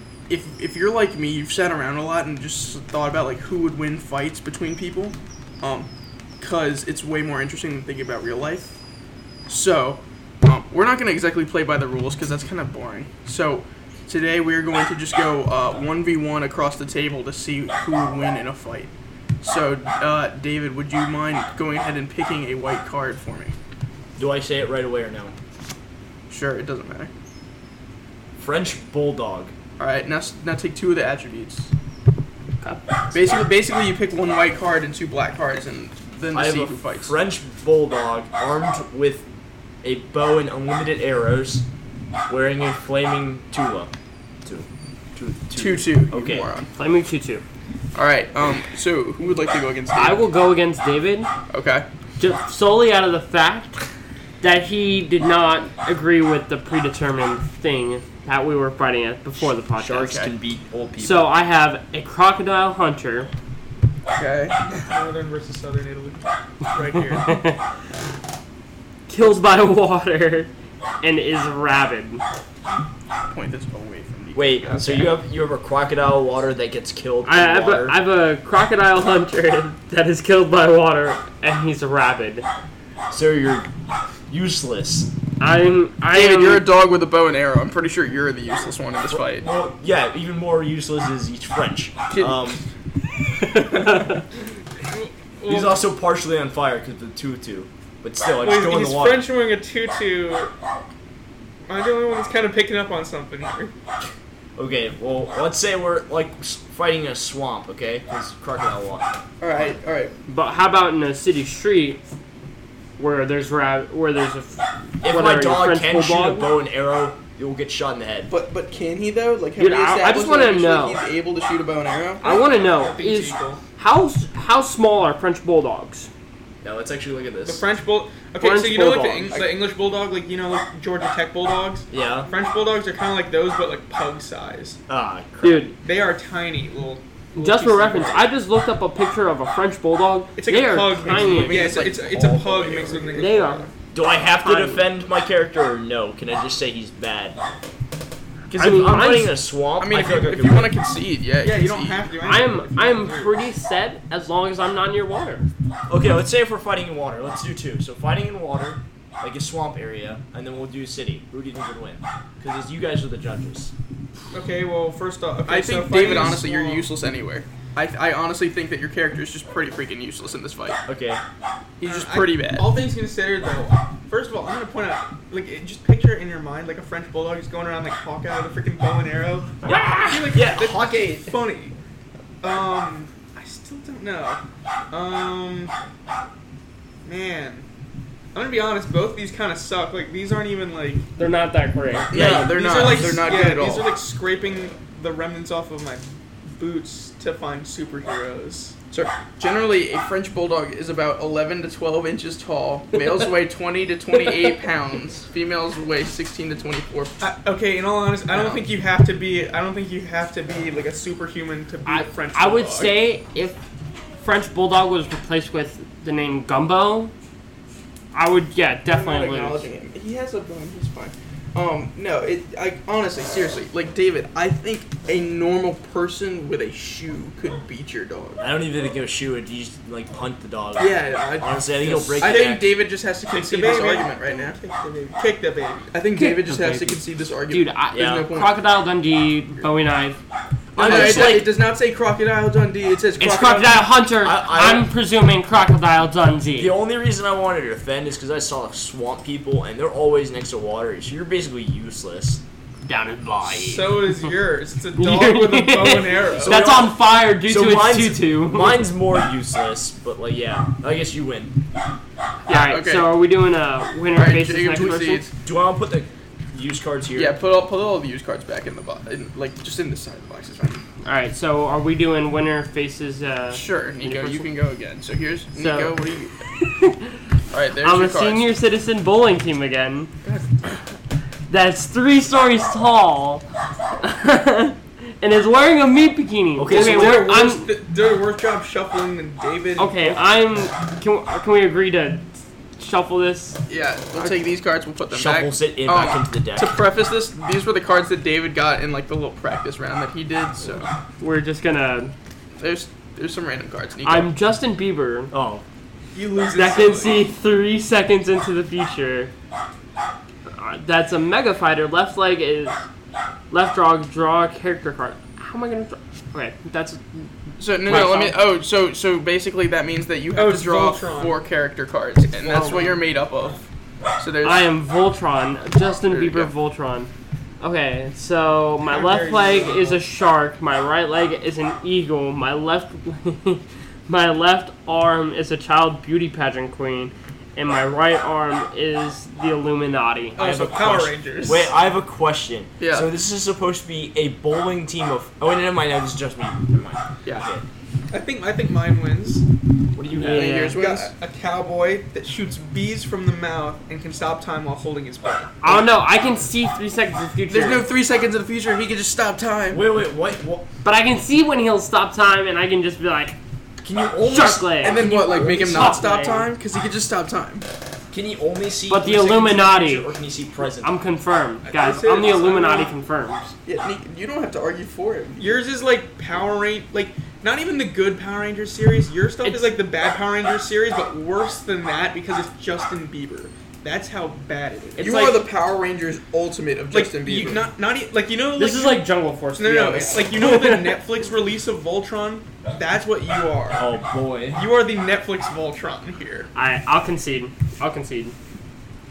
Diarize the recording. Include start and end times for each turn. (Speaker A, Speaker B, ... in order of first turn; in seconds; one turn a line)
Speaker A: 0.3-5.9
Speaker A: 6.4-8.7
Speaker A: 9.5-23.5
Speaker B: 24.2-25.3
Speaker A: 26.3-27.1
Speaker B: 28.4-29.5
Speaker A: 29.8-31.7
Speaker A: 33.1-37.1
Speaker B: 36.3-39.2
Speaker B: 39.8-41.6
Speaker B: 42.3-43.9
Speaker B: 44.4-46.5
Speaker A: 45.5-46.7
Speaker C: 46.8-47.4
Speaker A: 47.9-50.3
Speaker C: 49.9-51.3
Speaker A: 51.5-51.9
Speaker C: 52.2-53.8
Speaker C: 54.4-60.2
Speaker B: 59.8-61.3
Speaker C: 61.0-63.3
Speaker A: 64.2-64.9
Speaker D: 64.9-67.4
Speaker C: 67.2-67.5
Speaker C: 69.1-70.5
Speaker C: 71.0-72.2
Speaker A: 73.3-75.1
Speaker B: 74.3-78.0
Speaker C: 77.2-82.5
Speaker B: 83.1-83.7
Speaker B: 84.3-85.1
Speaker C: 85.4-86.6
Speaker A: 86.1-89.5
Speaker B: 89.1-92.6
Speaker A: 92.1-92.4
Speaker C: 93.5-94.1
Speaker D: 94.9-95.8
Speaker B: 95.5-99.3
Speaker D: 98.4-100.5
Speaker D: 101.7-103.7
Speaker B: 104.5-109.2
Speaker A: 109.4-110.1
Speaker C: 110.3-112.0
Speaker C: 113.0-116.5
Speaker B: 115.0-118.3
Speaker A: 118.3-122.2
Speaker C: 119.6-121.0
Speaker D: 122.2-123.6
Speaker C: 122.2-126.1
Speaker B: 126.6-127.6
Speaker D: 127.4-134.8
Speaker C: 128.4-129.3
Speaker A: 129.3-129.6
Speaker B: 131.9-132.3
Speaker B: 134.9-135.7
Speaker C: 135.4-135.7
Speaker D: 135.8-138.3
Speaker C: 137.3-141.8
Speaker D: 140.4-143.7
Speaker A: 141.0-143.2
Speaker C: 143.1-143.7
Speaker B: 143.9-147.4
Speaker C: 144.4-144.9
Speaker B: 148.5-150.8
Speaker C: 148.5-149.4
Speaker A: 149.8-152.0
Speaker D: 151.4-153.3
Speaker C: 152.2-155.5
Speaker B: 155.9-163.7
Speaker D: 164.3-166.9
Speaker A: 165.5-170.8
Speaker B: 166.1-166.4
Speaker B: 170.9-171.2
Speaker A: 171.8-172.8
Speaker D: 171.8-181.7
Speaker B: 179.6-181.4
Speaker D: 182.4-185.7
Speaker D: 187.0-187.7
Speaker D: 188.3-191.1
Speaker C: 191.2-192.2
Speaker B: 192.1-192.9
Speaker A: 192.1-193.9
Speaker D: 192.1-198.7
Speaker A: 198.9-207.2
Speaker D: 207.2-213.0
Speaker A: 208.3-208.6
Speaker C: 211.8-213.6
Speaker C: 214.2-217.1
Speaker C: 218.1-219.7
Speaker A: 218.9-228.4
Speaker B: 228.4-232.7
Speaker A: 230.8-234.6
Speaker D: 232.2-232.6
Speaker D: 233.3-235.9
Speaker A: 235.9-238.5
Speaker C: 236.2-240.2
Speaker B: 237.9-238.3
Speaker B: 240.7-241.5
Speaker C: 240.8-241.5
Speaker A: 240.8-243.8
Speaker C: 243.2-246.7
Speaker B: 244.2-244.9
Speaker B: 246.6-252.4
Speaker C: 252.8-254.3
Speaker D: 253.6-256.6
Speaker C: 255.0-258.9
Speaker B: 256.3-261.6
Speaker A: 262.5-263.1
Speaker C: 262.5-265.2
Speaker A: 264.1-265.3
Speaker B: 265.4-267.4
Speaker A: 267.1-270.8
Speaker C: 271.0-274.5
Speaker A: 273.5-276.3
Speaker C: 275.5-275.9
Speaker C: 276.5-277.2
Speaker A: 277.5-278.4
Speaker C: 277.8-280.1
Speaker A: 280.2-280.5
Speaker C: 281.5-283.4
Speaker C: 284.0-287.7
Speaker B: 286.6-287.3
Speaker D: 286.7-290.1
Speaker C: 289.8-292.2
Speaker C: 292.8-293.6
Speaker A: 293.7-300.9
Speaker B: 295.1-296.8
Speaker C: 301.2-302.1
Speaker A: 302.6-304.3
Speaker C: 304.0-305.3
Speaker B: 305.3-305.6
Speaker D: 306.1-307.3
Speaker C: 306.5-309.3
Speaker C: 310.4-312.8
Speaker C: 313.5-318.4
Speaker A: 317.6-323.6
Speaker D: 320.3-321.4
Speaker D: 322.4-322.9
Speaker C: 322.4-323.0
Speaker A: 324.2-324.7
Speaker C: 324.4-340.4
Speaker A: 326.1-326.5
Speaker D: 328.8-330.0
Speaker D: 340.4-341.7
Speaker A: 340.4-340.7
Speaker B: 340.4-347.6
Speaker A: 342.8-343.1
Speaker D: 348.1-349.4
Speaker B: 349.9-350.5
Speaker C: 350.1-350.8
Speaker A: 350.3-351.1
Speaker D: 350.7-355.5
Speaker C: 355.6-357.9
Speaker A: 357.5-359.8
Speaker B: 359.7-360.6
Speaker C: 360.8-363.4
Speaker B: 363.8-365.9
Speaker C: 364.2-366.5
Speaker A: 364.8-367.6
Speaker B: 368.1-371.0
Speaker C: 368.9-370.1
Speaker C: 370.8-373.5
Speaker D: 371.6-372.9
Speaker A: 373.6-375.6
Speaker D: 375.4-385.4
Speaker C: 379.4-379.7
Speaker A: 385.0-387.6
Speaker D: 386.9-393.9
Speaker C: 388.6-391.0
Speaker B: 393.8-394.7
Speaker D: 394.5-396.4
Speaker C: 396.5-398.3